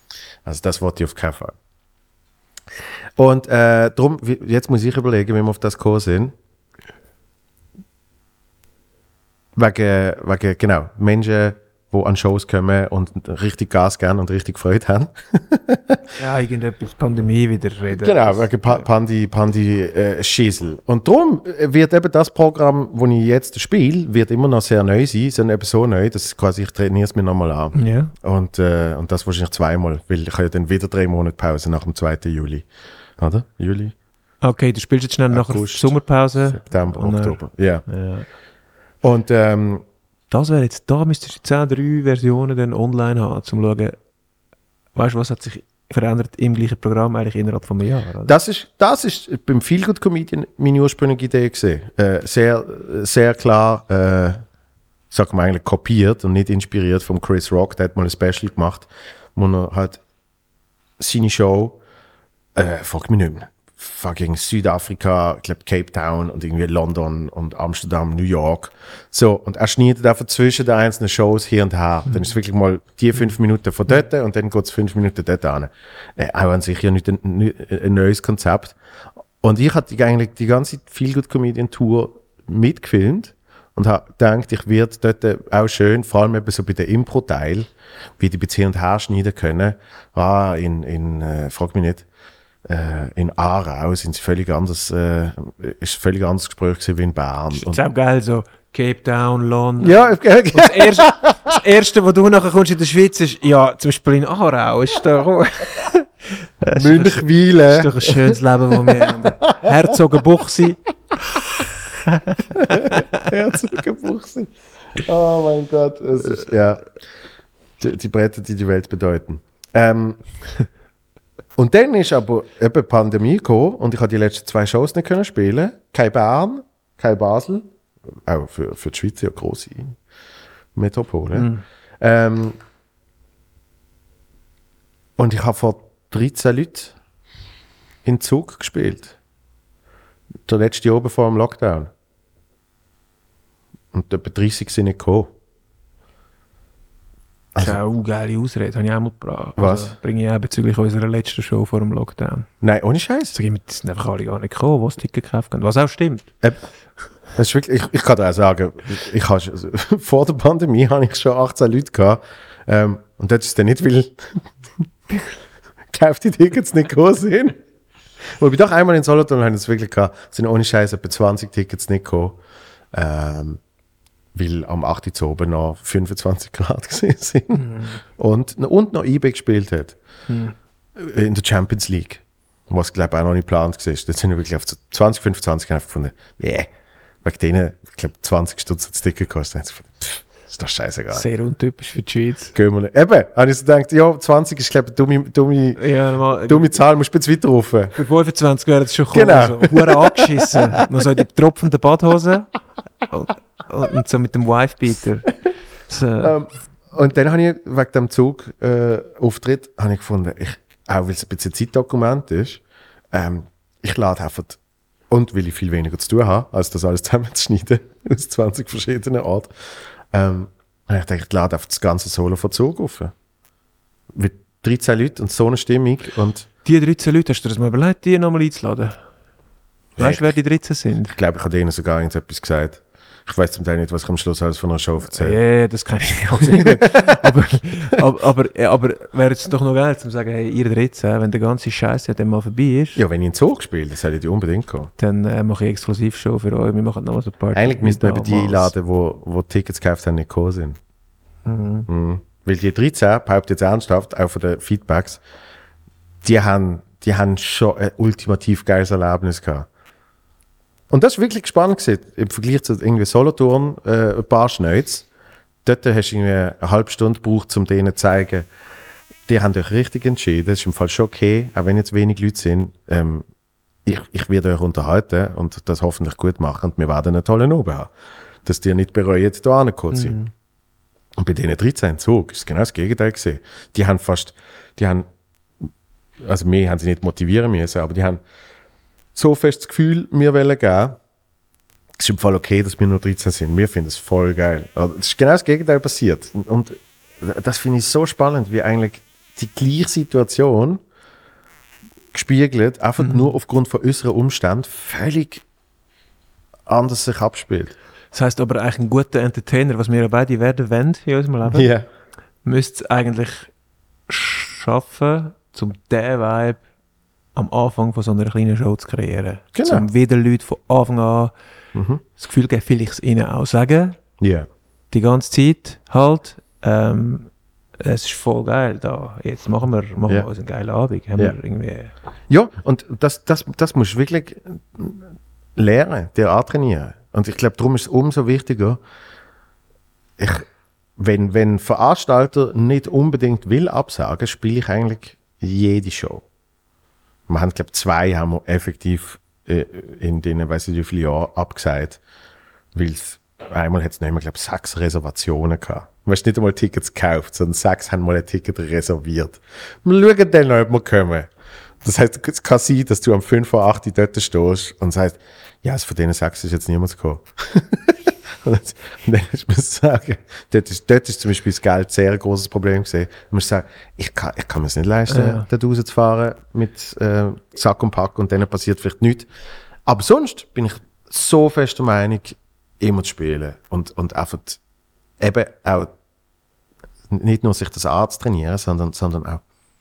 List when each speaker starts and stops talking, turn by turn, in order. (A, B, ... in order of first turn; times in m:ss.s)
0:00.4-0:01.6 A
0:03.2-0:06.4 A
0:09.6-0:16.0 A
0:16.2-0:18.8 B
0:18.0-0:32.7 A
0:27.8-0:28.1 B
0:33.2-0:34.0 A
0:34.4-0:38.3 B
0:35.3-0:37.8 A
0:39.0-0:39.8 A
0:40.3-0:44.0 B
0:45.0-0:48.3 B
0:48.3-0:54.4 A
0:55.1-1:00.0 A
1:01.0-1:01.8 A
1:02.6-1:18.8 A
1:19.4-1:32.1 A
1:32.7-1:37.8 A
1:37.5-1:46.1 B
1:39.8-1:41.4 A
1:46.6-1:50.8 B
1:46.8-1:49.7 A
1:52.1-1:53.2 B
1:52.7-1:56.8 A
1:57.8-2:00.2 A
2:01.6-2:07.7 A
2:08.2-2:10.0 A
2:10.8-2:12.6 A
2:11.3-2:11.6 B
2:15.2-2:17.0 A
2:18.0-2:19.2 A
2:20.5-2:21.9 A
2:23.9-2:25.3 A
2:27.6-2:32.5 B
2:29.6-2:29.9 A
2:32.6-2:33.4 A
2:33.3-2:36.3 B
2:37.4-2:44.5 A
2:45.9-2:47.6 A
2:48.4-2:52.4 A
2:52.9-2:53.6 A
2:54.3-2:57.6 A
2:57.5-2:58.0 B
2:58.2-3:00.0 A
3:00.3-3:00.6 B
3:01.0-3:06.7 A
3:07.2-3:11.2 A
3:11.1-3:12.6 B
3:12.5-3:15.8 A
3:15.8-3:16.7 B
3:16.5-3:18.0 A
3:18.0-3:22.5 B
3:19.1-3:20.8 A
3:23.1-3:25.3 B
3:25.9-3:26.4 B
3:26.2-3:34.6 A
3:35.1-3:39.5 A
3:40.1-3:43.1 A
3:44.1-3:46.5 A
3:46.6-3:49.0 B
3:50.0-3:50.3 A
3:50.0-3:51.2 B
3:51.1-3:55.4 A
3:55.1-4:03.0 B
3:56.4-3:57.3 A
4:03.0-4:04.9 A
4:05.0-4:08.7 B
4:07.5-4:10.8 A
4:11.4-4:11.9 B
4:11.9-4:15.2 A
4:16.2-4:19.7 A
4:20.9-4:25.1 A
4:25.6-4:28.5 A
4:29.3-4:33.2 A
4:33.8-4:37.9 A
4:38.4-4:40.2 A
4:39.9-4:40.3 B
4:41.2-4:45.1 A
4:46.2-4:48.2 A
4:49.2-4:51.0 A
4:52.0-5:00.8 A
5:02.1-5:05.4 A
5:03.0-5:03.3 B
5:06.7-5:07.7 A
5:08.1-5:11.7 B
5:11.5-5:11.9 A
5:12.4-5:13.5 B
5:14.1-5:16.6 B
5:17.4-5:21.3 B
5:19.5-5:19.9 A
5:21.8-5:22.0 A
5:22.2-5:24.0 B
5:24.2-5:24.5 A
5:24.9-5:31.9 B
5:32.3-5:38.8 A
5:40.2-5:46.2 A
5:47.3-5:52.0 A
5:52.7-6:01.3 A
6:01.8-6:19.3 A
6:15.1-6:15.5 B
6:19.9-6:24.6 A
6:25.2-6:25.9 A
6:27.1-6:29.4 A